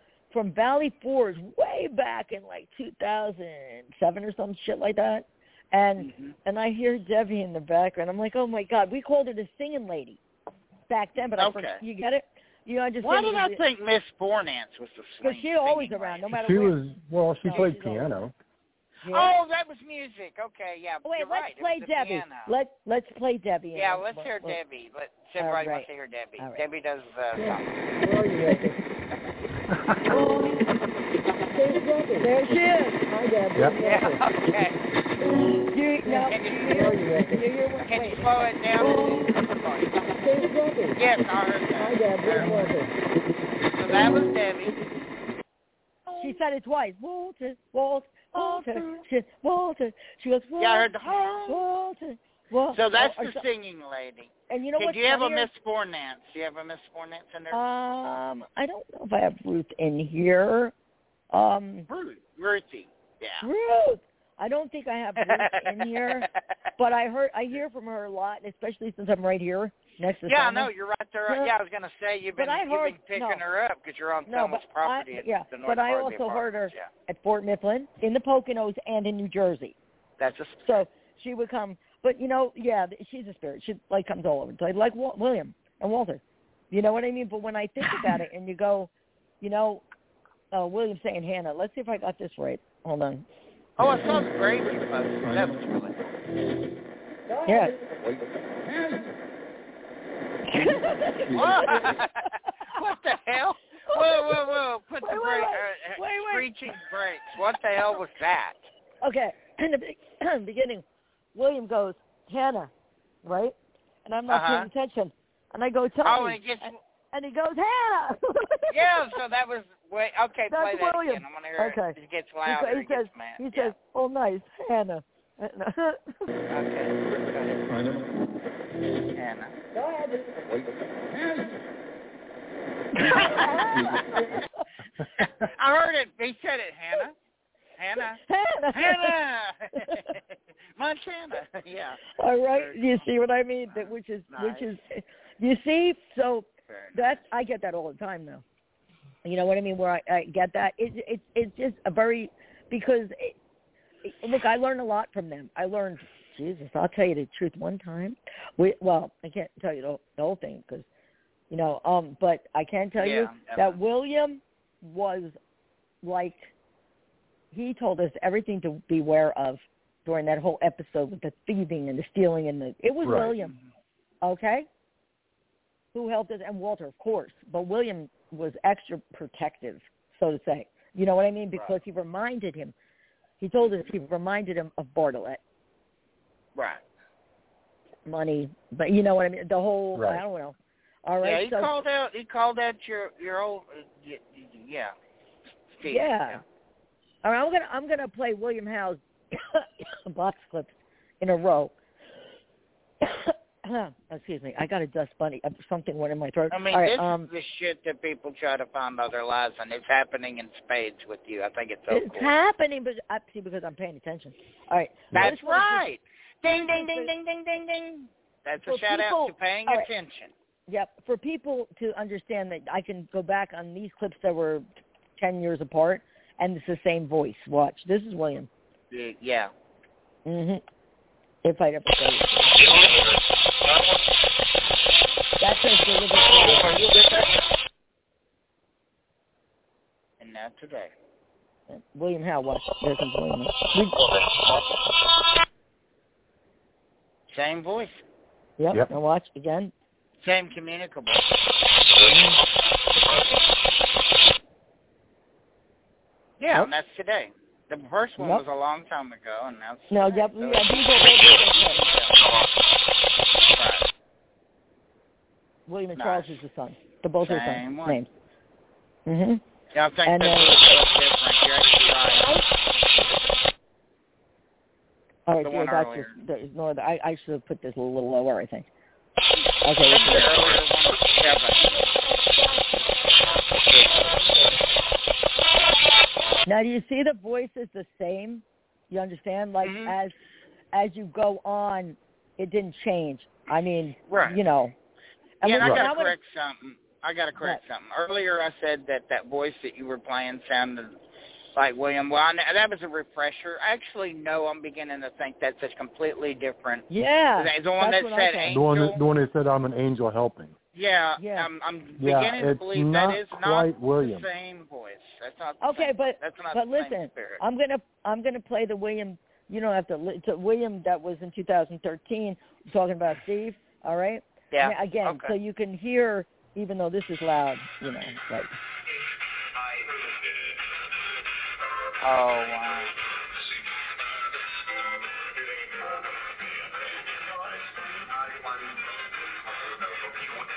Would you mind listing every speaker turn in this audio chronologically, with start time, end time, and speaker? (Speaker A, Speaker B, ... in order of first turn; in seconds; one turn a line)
Speaker A: 0.3-10.2
Speaker B: 6.0-6.3
Speaker A: 10.9-13.6
Speaker B: 11.4-11.8
Speaker B: 13.0-16.3
Speaker A: 15.2-16.8
Speaker C: 16.3-18.3
Speaker A: 17.4-18.1
Speaker A: 19.0-19.4
Speaker B: 19.1-22.5
Speaker A: 21.0-24.6
Speaker B: 23.7-27.8
Speaker A: 25.4-25.9
Speaker A: 28.1-28.8
Speaker C: 29.7-30.2
Speaker A: 32.2-34.2
Speaker B: 33.8-34.8
Speaker A: 35.7-38.5
Speaker B: 36.3-37.0
Speaker B: 37.8-40.0
Speaker A: 40.2-41.0
Speaker B: 41.0-42.5
Speaker A: 41.8-42.9
Speaker B: 43.7-44.8
Speaker B: 46.1-46.4
Speaker A: 46.2-50.9
Speaker B: 48.3-49.0
Speaker B: 50.6-51.6
Speaker A: 51.5-53.4
Speaker B: 52.7-57.6
Speaker A: 54.5-55.5
Speaker A: 57.5-60.7
Speaker A: 61.3-61.9
Speaker B: 61.9-63.5
Speaker A: 63.4-70.7
Speaker B: 65.2-66.3
Speaker B: 70.3-76.9
Speaker A: 72.4-73.4
Speaker A: 74.3-79.8
Speaker B: 80.2-80.7
Speaker A: 80.7-88.9
Speaker A: 89.4-89.8
Speaker A: 90.5-93.2
Speaker B: 93.8-96.0
Speaker A: 97.5-97.8
Speaker A: 100.5-102.1
Speaker B: 101.3-108.7
Speaker A: 103.9-106.5
Speaker A: 109.0-110.8
Speaker A: 111.3-112.7
Speaker A: 113.2-119.1
Speaker B: 114.3-114.7
Speaker B: 116.0-116.8
Speaker B: 118.7-123.8
Speaker A: 120.5-126.2
Speaker B: 126.5-127.6
Speaker B: 129.1-129.6
Speaker A: 132.9-134.5
Speaker B: 133.1-134.4
Speaker B: 135.2-137.2
Speaker B: 137.8-138.2
Speaker A: 138.1-139.2
Speaker B: 138.7-143.1
Speaker A: 142.2-148.4
Speaker B: 143.7-144.7
Speaker B: 146.7-147.2
Speaker A: 149.2-153.4
Speaker A: 154.0-160.9
Speaker A: 161.5-165.4
Speaker B: 163.0-163.8
Speaker A: 166.0-166.5
Speaker A: 167.5-173.6
Speaker C: 173.0-173.3
Speaker B: 173.4-173.7
Speaker A: 174.2-174.7
Speaker A: 175.9-182.7
Speaker A: 183.4-185.4
Speaker B: 186.6-186.8
Speaker A: 188.1-191.8
Speaker C: 189.9-190.2
Speaker B: 191.2-194.9
Speaker B: 195.7-196.4
Speaker A: 195.9-196.4
Speaker A: 197.2-201.7
Speaker A: 203.0-207.3
Speaker B: 206.5-212.3
Speaker A: 211.9-215.9
Speaker B: 215.1-220.3
Speaker A: 216.5-217.1
Speaker A: 218.7-219.9
Speaker A: 220.7-224.7
Speaker A: 225.2-228.5
Speaker B: 228.9-229.5
Speaker A: 230.2-230.6
Speaker A: 231.4-232.9
Speaker A: 235.4-237.1
Speaker B: 240.2-240.9
Speaker A: 241.7-244.0
Speaker B: 247.3-248.0
Speaker A: 248.6-249.7
Speaker B: 250.2-251.2
Speaker A: 252.0-252.4
Speaker B: 256.4-262.3
Speaker A: 259.9-261.8
Speaker B: 263.6-263.9
Speaker A: 265.7-268.1
Speaker B: 265.9-266.4
Speaker B: 267.2-268.0
Speaker A: 269.1-269.4
Speaker B: 269.7-272.4
Speaker A: 270.1-270.6
Speaker A: 275.3-278.7
Speaker B: 275.4-276.1
Speaker A: 279.6-280.5
Speaker B: 279.8-281.8
Speaker B: 283.7-284.3
Speaker A: 286.5-290.1
Speaker B: 289.6-289.9
Speaker A: 290.7-294.7
Speaker B: 294.1-294.4
Speaker A: 295.4-296.1
Speaker B: 295.4-301.0
Speaker C: 295.6-295.9
Speaker B: 301.6-309.0
Speaker A: 306.9-308.6
Speaker C: 308.5-310.6
Speaker B: 310.7-317.4
Speaker A: 311.2-311.5
Speaker C: 312.0-314.3
Speaker A: 315.6-328.5
Speaker B: 324.5-325.4
Speaker B: 332.0-332.9